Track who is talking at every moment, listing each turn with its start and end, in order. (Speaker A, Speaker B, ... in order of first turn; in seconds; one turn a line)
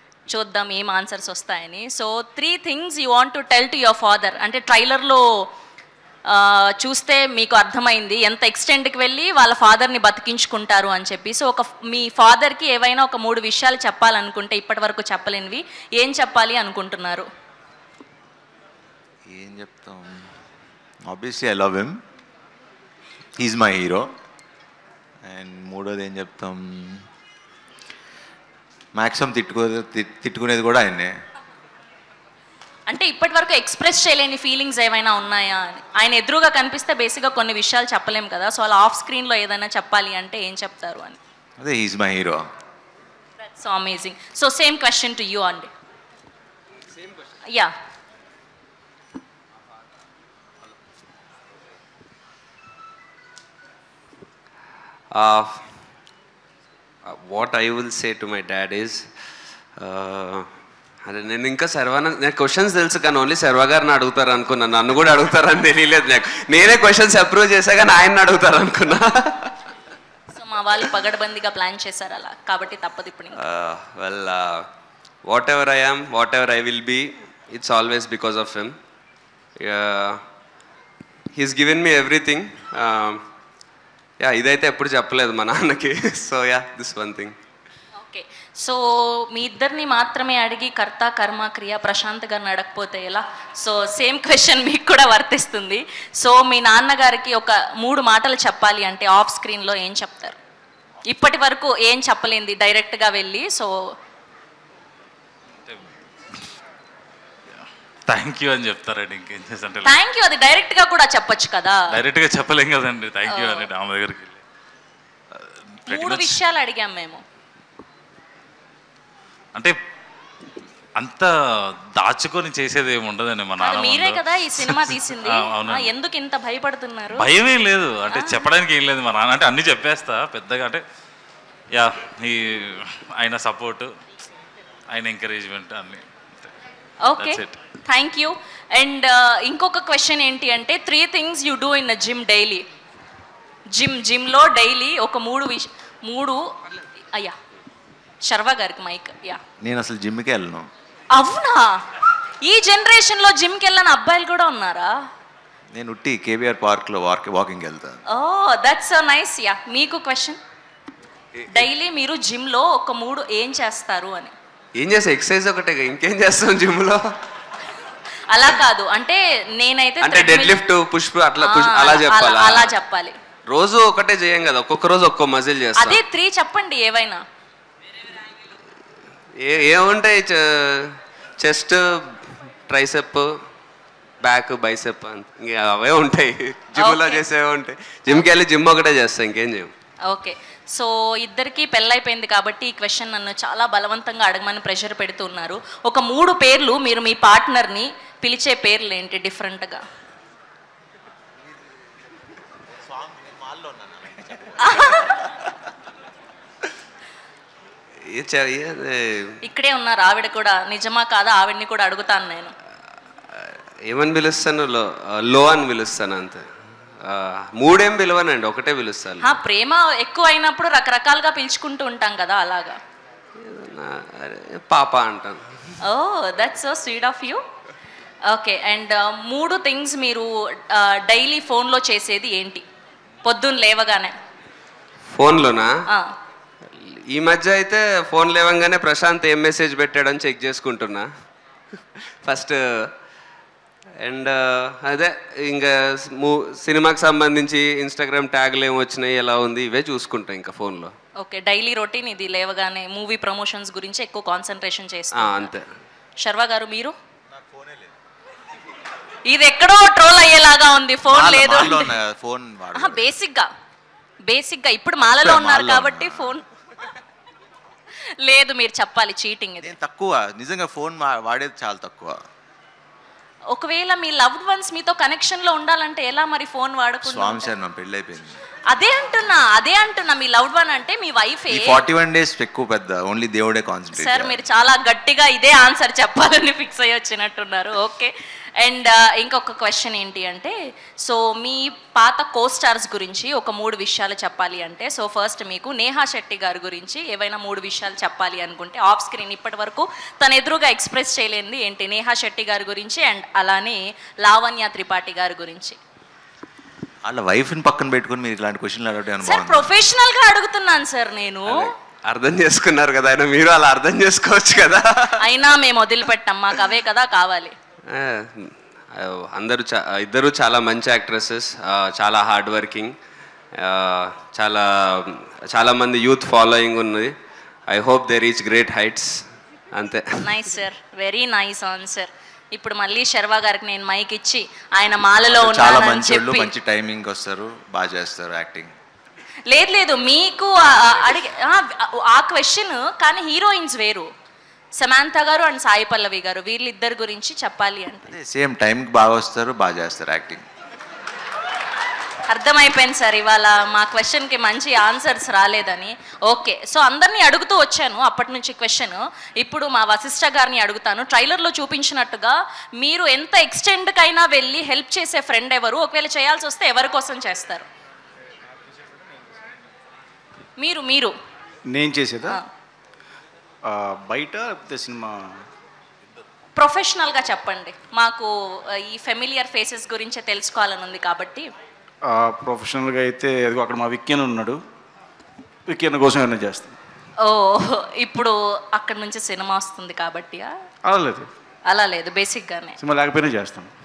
Speaker A: 0.3-5.5
Speaker A: 6.3-17.3
Speaker B: 19.3-20.3
Speaker B: 21.1-21.9
Speaker B: 23.4-24.1
Speaker B: 25.2-27.0
Speaker B: 28.9-31.1
Speaker A: 32.9-41.2
Speaker B: 41.6-42.4
Speaker A: 43.5-45.7
Speaker C: 55.1-55.6
Speaker C: 57.0-59.0
Speaker C: 59.8-60.5
Speaker C: 61.1-69.5
Speaker A: 70.3-73.4
Speaker C: 73.4-74.6
Speaker C: 75.3-78.7
Speaker C: 79.6-80.2
Speaker C: 81.3-83.2
Speaker C: 84.2-87.3
Speaker A: 88.0-100.4
Speaker A: 101.1-103.7
Speaker D: 108.1-110.0
Speaker A: 109.8-111.8
Speaker D: 111.9-114.4
Speaker A: 113.3-113.7
Speaker D: 115.4-116.3
Speaker A: 115.9-117.2
Speaker D: 121.0-121.3
Speaker D: 122.0-125.9
Speaker A: 123.6-127.3
Speaker D: 127.2-130.8
Speaker A: 128.1-128.4
Speaker D: 131.7-133.9
Speaker D: 134.9-136.5
Speaker A: 137.1-142.6
Speaker D: 137.2-137.6
Speaker A: 143.7-147.3
Speaker A: 148.2-149.4
Speaker B: 149.6-150.7
Speaker A: 151.1-151.8
Speaker A: 152.4-154.9
Speaker B: 155.8-158.0
Speaker A: 158.1-160.4
Speaker A: 161.5-164.3
Speaker C: 164.8-167.0
Speaker A: 168.3-170.6
Speaker C: 170.0-172.7
Speaker A: 171.4-173.2
Speaker C: 173.5-176.0
Speaker A: 175.8-177.2
Speaker C: 179.4-183.3
Speaker C: 184.2-189.7
Speaker A: 186.8-187.2
Speaker A: 190.1-199.8
Speaker B: 202.7-205.0
Speaker A: 204.6-205.2
Speaker C: 208.1-209.3
Speaker A: 209.4-212.5
Speaker C: 213.3-216.4
Speaker C: 217.0-219.3
Speaker A: 219.2-222.8
Speaker C: 223.4-225.4
Speaker A: 225.8-227.4
Speaker A: 228.3-232.6
Speaker A: 233.2-234.1
Speaker C: 235.1-235.7
Speaker A: 235.9-236.1
Speaker C: 236.7-241.1
Speaker C: 242.2-242.9
Speaker C: 244.0-250.9
Speaker A: 251.2-255.5
Speaker C: 255.1-255.6
Speaker A: 256.2-256.9
Speaker B: 257.3-257.9
Speaker A: 259.3-261.9
Speaker B: 261.1-263.1
Speaker A: 262.8-263.5
Speaker A: 264.3-266.4
Speaker B: 265.2-266.4
Speaker A: 268.2-269.7
Speaker B: 269.6-272.2
Speaker A: 273.5-277.5
Speaker B: 277.0-278.4
Speaker A: 278.7-281.8
Speaker B: 281.5-284.4
Speaker A: 283.9-305.8
Speaker B: 307.1-309.7
Speaker A: 309.2-311.7
Speaker C: 311.5-315.2
Speaker A: 315.2-317.6
Speaker C: 317.9-322.9
Speaker C: 323.6-327.1
Speaker C: 327.7-329.2
Speaker C: 329.7-330.4
Speaker A: 330.2-336.5
Speaker B: 335.3-338.7
Speaker A: 339.5-344.1
Speaker A: 344.8-348.1
Speaker B: 348.1-350.4
Speaker A: 352.3-367.7
Speaker A: 370.6-371.1
Speaker E: 371.7-372.4
Speaker E: 373.7-375.3
Speaker A: 376.6-381.5
Speaker E: 382.1-384.6
Speaker E: 385.7-386.8
Speaker A: 387.2-390.5
Speaker E: 390.9-391.3
Speaker A: 391.7-392.8
Speaker E: 392.8-393.7